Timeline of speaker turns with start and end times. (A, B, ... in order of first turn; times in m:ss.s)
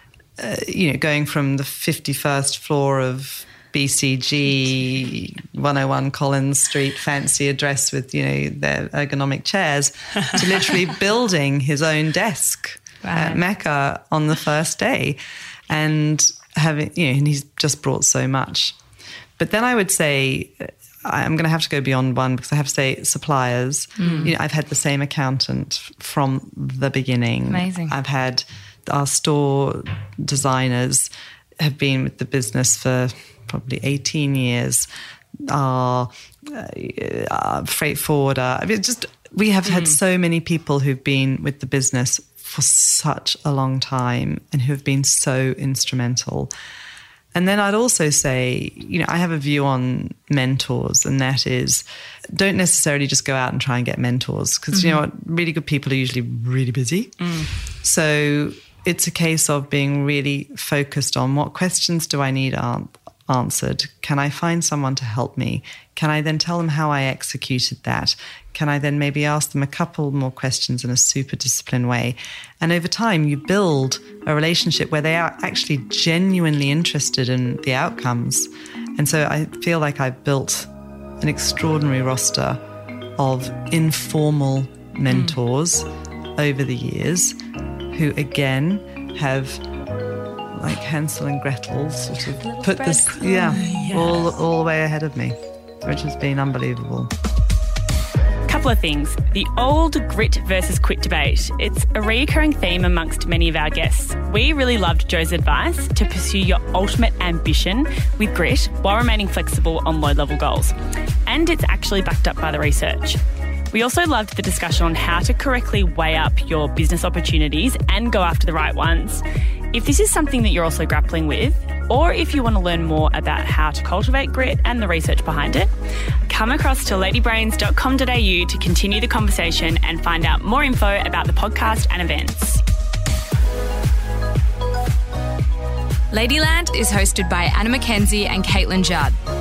0:00.4-0:18.8 A
0:13.0-0:13.4 B
0:19.4-0:34.9 A
0:24.0-0:24.3 B
0:24.0-0:24.3 C
0:27.5-0:27.9 B
0:35.5-0:46.5 A
0:39.7-0:40.0 C
0:47.3-1:22.6 A
0:54.7-0:55.0 B
0:57.2-0:57.5 C
1:23.2-1:27.4 A
1:25.1-1:25.3 C
1:27.9-1:29.6 A
1:30.5-1:37.1 A
1:32.4-1:34.1 B
1:33.6-1:34.3 C
1:38.4-2:05.7 C
2:06.2-2:12.6 C
2:16.1-2:19.2 B